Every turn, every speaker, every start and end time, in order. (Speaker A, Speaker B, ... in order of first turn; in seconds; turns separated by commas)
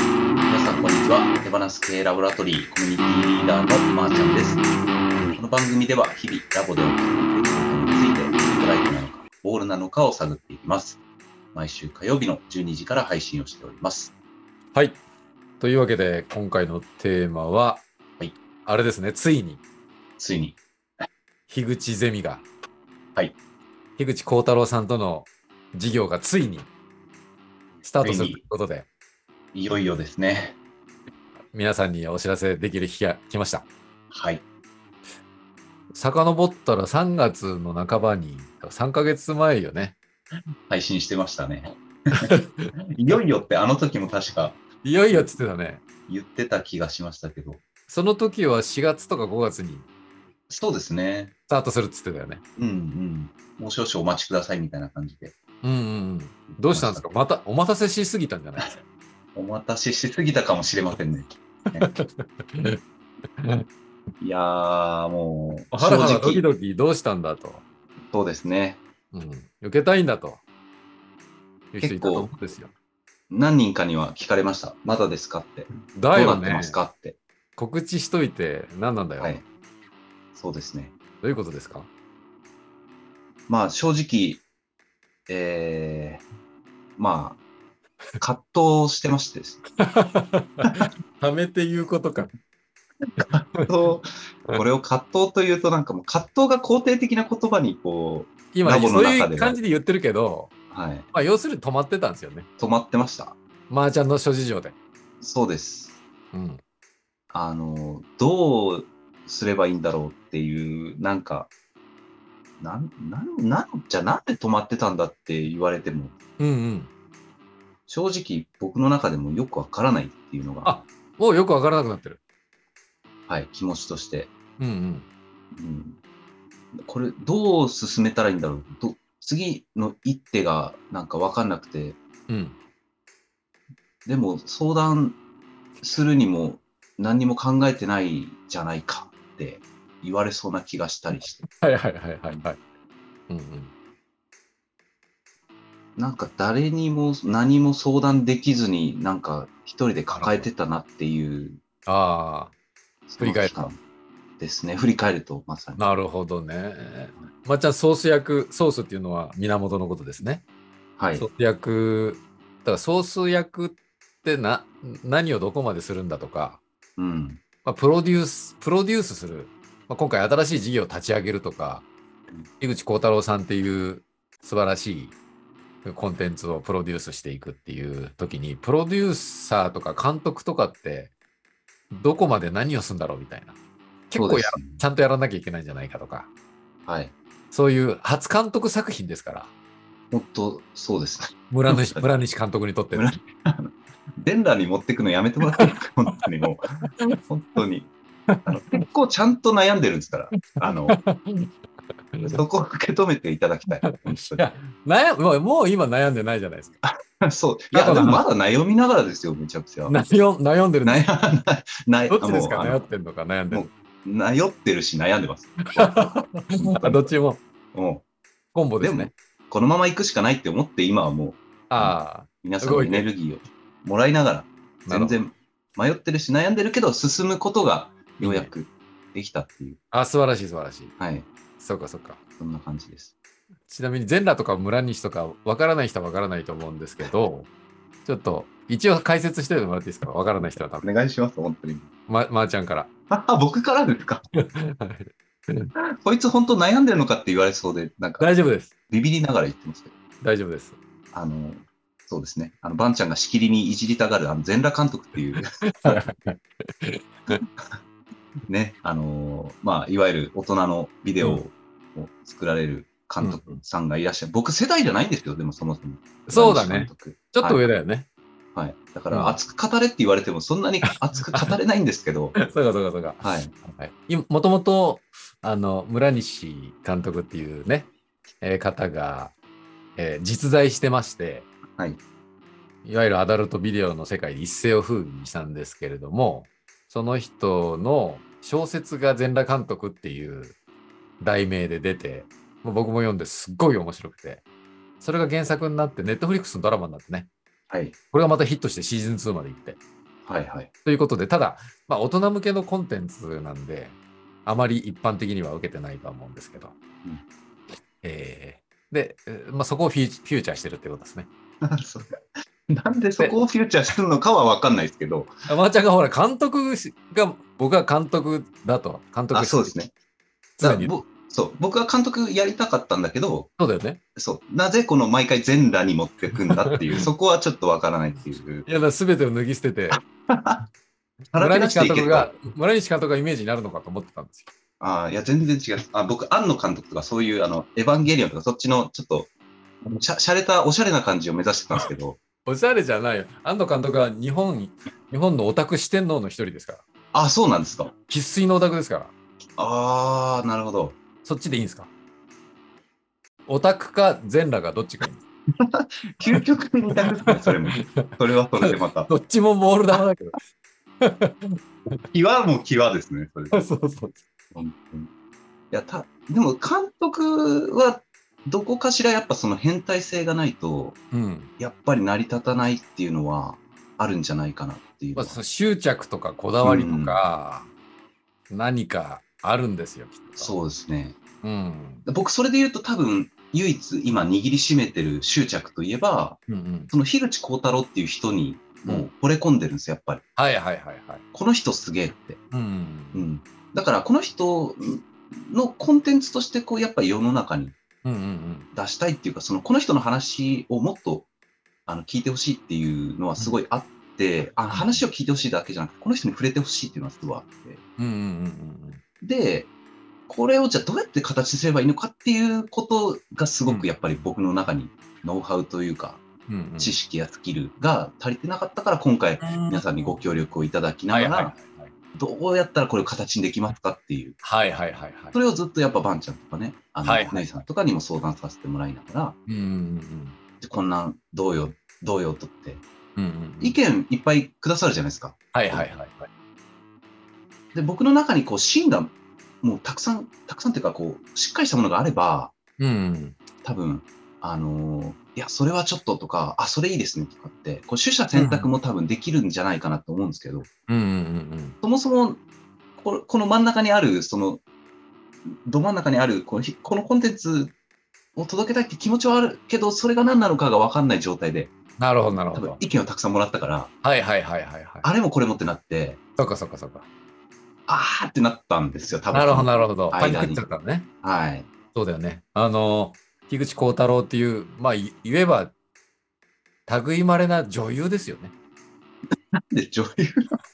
Speaker A: 0.4-4.6, Speaker A: 5.3-11.0, Speaker A: 11.6-14.1, Speaker B: 14.7-15.0, Speaker B: 15.6-17.9, Speaker B: 18.6-19.6, Speaker A: 20.2-20.6, Speaker B: 21.5-22.5, Speaker B: 24.0-26.7, Speaker B: 27.8-28.9, Speaker A: 28.0-28.4, Speaker A: 29.5-30.6, Speaker B: 31.5-33.7, Speaker A: 34.1-34.4, Speaker B: 36.0-40.0, Speaker A: 40.7-42.3, Speaker B: 42.2-42.7, Speaker A: 42.9-45.3, Speaker B: 44.8-45.8, Speaker A: 46.1-47.6, Speaker B: 47.9-49.9, Speaker A: 50.5-51.3, Speaker B: 51.5-52.4, Speaker A: 52.6-55.4, Speaker B: 55.6-58.8, Speaker A: 56.5-57.0, Speaker A: 59.4-62.0, Speaker B: 61.8-62.8, Speaker B: 63.4-63.6, Speaker A: 64.2-66.5, Speaker B: 65.7-67.6, Speaker A: 68.1-68.8, Speaker B: 69.1-70.4, Speaker B: 71.7-72.7, Speaker A: 71.8-72.3, Speaker A: 73.3-77.2, Speaker B: 76.0-76.8, Speaker B: 77.6-79.4, Speaker A: 80.3-80.9, Speaker B: 81.2-81.9, Speaker A: 83.5-84.5, Speaker A: 85.3-86.2, Speaker A: 87.0-87.4, Speaker A: 88.2-89.7, Speaker B: 89.8-92.3, Speaker A: 93.2-99.6, Speaker B: 93.2-93.7, Speaker B: 98.5-100.5, Speaker A: 100.7-101.1, Speaker B: 101.1-102.5, Speaker A: 102.6-103.4, Speaker B: 103.7-104.8, Speaker A: 105.2-106.0, Speaker B: 106.3-106.6, Speaker A: 107.3-111.5, Speaker A: 112.6-116.2, Speaker B: 116.4-116.9, Speaker A: 117.9-120.8, Speaker B: 120.6-122.2, Speaker A: 123.3-124.3, Speaker B: 124.6-125.1, Speaker A: 125.5-126.0, Speaker A: 126.8-132.0, Speaker B: 132.3-132.6, Speaker A: 134.1-135.2, Speaker A: 135.8-141.4, Speaker B: 141.2-142.6, Speaker B: 143.3-143.7, Speaker A: 146.0-151.6, Speaker B: 150.1-150.5, Speaker B: 151.9-152.5, Speaker A: 153.1-153.8, Speaker B: 153.2-153.6, Speaker A: 154.4-155.9, Speaker B: 155.8-160.4, Speaker A: 161.0-161.3, Speaker B: 161.2-166.6, Speaker A: 167.0-167.4, Speaker B: 167.6-171.9, Speaker B: 172.6-175.2, Speaker B: 175.8-181.1, Speaker B: 181.9-183.6, Speaker B: 184.1-186.3, Speaker A: 184.2-184.8, Speaker A: 186.9-187.2, Speaker B: 187.5-189.5, Speaker A: 190.1-192.1, Speaker B: 191.5-193.2, Speaker A: 192.9-197.9, Speaker B: 198.3-198.8, Speaker A: 198.5-201.0, Speaker B: 200.4-201.5, Speaker B: 202.1-202.4, Speaker A: 202.3-204.5, Speaker B: 203.8-206.8, Speaker A: 206.8-210.0, Speaker B: 207.7-208.3, Speaker B: 209.9-211.1, Speaker A: 210.8-212.8, Speaker B: 212.1-213.7, Speaker A: 213.5-217.1, Speaker B: 215.7-217.4, Speaker A: 217.7-218.1, Speaker B: 218.5-219.1, Speaker A: 218.8-229.8, Speaker B: 221.7-223.1, Speaker B: 224.9-225.2, Speaker B: 228.2-228.5, Speaker B: 229.9-230.9, Speaker A: 231.0-231.3, Speaker B: 231.6-232.2, Speaker A: 232.4-233.1, Speaker B: 233.7-237.5, Speaker B: 238.1-240.9, Speaker A: 240.4-241.9, Speaker B: 242.1-242.9, Speaker A: 243.1-244.2, Speaker B: 244.4-245.7, Speaker A: 246.0-248.3, Speaker B: 248.2-248.7, Speaker A: 248.9-250.0, Speaker B: 250.2-250.8, Speaker A: 251.1-256.0, Speaker B: 255.4-257.4, Speaker A: 258.5-267.6, Speaker B: 261.2-261.5, Speaker B: 263.2-263.6, Speaker B: 266.3-268.1, Speaker A: 268.6-272.4, Speaker B: 269.1-269.4, Speaker B: 270.8-271.6, Speaker B: 272.4-279.4, Speaker A: 273.2-273.5, Speaker B: 280.0-281.5, Speaker B: 282.8-290.6, Speaker B: 291.2-294.4, Speaker B: 295.0-297.3, Speaker A: 297.7-298.0, Speaker B: 298.1-299.8, Speaker A: 300.2-300.7, Speaker B: 300.9-306.8, Speaker B: 308.0-311.3, Speaker A: 311.6-315.3, Speaker B: 315.5-319.8, Speaker A: 319.3-319.9, Speaker B: 320.6-320.9, Speaker A: 320.6-323.5, Speaker B: 323.6-324.0, Speaker A: 324.2-328.7, Speaker B: 326.5-326.8, Speaker B: 328.7-330.0, Speaker A: 330.3-330.6, Speaker A: 331.3-332.3, Speaker B: 331.4-334.5, Speaker A: 334.8-339.3, Speaker A: 339.8-342.2, Speaker B: 342.4-346.9, Speaker A: 347.1-347.9, Speaker B: 348.1-349.1, Speaker A: 349.6-351.0, Speaker B: 351.2-351.9, Speaker B: 353.5-355.2, Speaker A: 355.6-359.1, Speaker B: 357.3-360.4, Speaker B: 361.0-362.0, Speaker A: 362.0-363.6, Speaker B: 363.5-364.2, Speaker A: 364.5-365.1, Speaker A: 365.7-371.0, Speaker B: 371.1-371.5, Speaker A: 371.6-375.4, Speaker B: 375.2-377.7, Speaker A: 376.6-377.2, Speaker B: 378.5-380.5, Speaker A: 380.4-381.2, Speaker B: 381.4-382.1, Speaker A: 382.1-386.4, Speaker B: 386.5-386.9, Speaker A: 386.9-390.2, Speaker B: 390.4-391.2, Speaker A: 391.3-392.4, Speaker B: 392.5-393.3, Speaker A: 393.1-397.8, Speaker B: 398.1-398.7, Speaker A: 398.7-401.3, Speaker A: 401.9-407.8, Speaker B: 404.7-405.1, Speaker B: 408.0-409.0, Speaker A: 409.2-409.7, Speaker A: 410.3-416.2, Speaker B: 416.5-416.9, Speaker A: 416.8-421.5, Speaker B: 419.4-420.3, Speaker B: 421.1-421.9, Speaker A: 422.1-424.4, Speaker B: 424.4-425.4, Speaker A: 425.3-429.4, Speaker B: 427.0-427.5, Speaker B: 429.5-430.4, Speaker A: 430.6-432.8, Speaker B: 433.2-433.8, Speaker A: 433.6-435.9, Speaker B: 435.5-436.3, Speaker A: 437.7-442.5, Speaker B: 442.8-443.4, Speaker A: 443.6-450.7, Speaker B: 448.3-448.7, Speaker B: 450.9-451.8, Speaker A: 451.8-452.4, Speaker A: 453.0-454.6, Speaker A: 455.5-457.8, Speaker A: 458.4-461.7, Speaker B: 462.0-462.8, Speaker A: 462.5-463.9, Speaker B: 464.0-465.1, Speaker A: 465.0-466.2, Speaker B: 466.4-467.1, Speaker A: 467.9-470.6, Speaker B: 469.3-471.1, Speaker A: 471.2-471.7, Speaker B: 471.9-475.7, Speaker B: 476.9-478.5, Speaker A: 479.7-480.5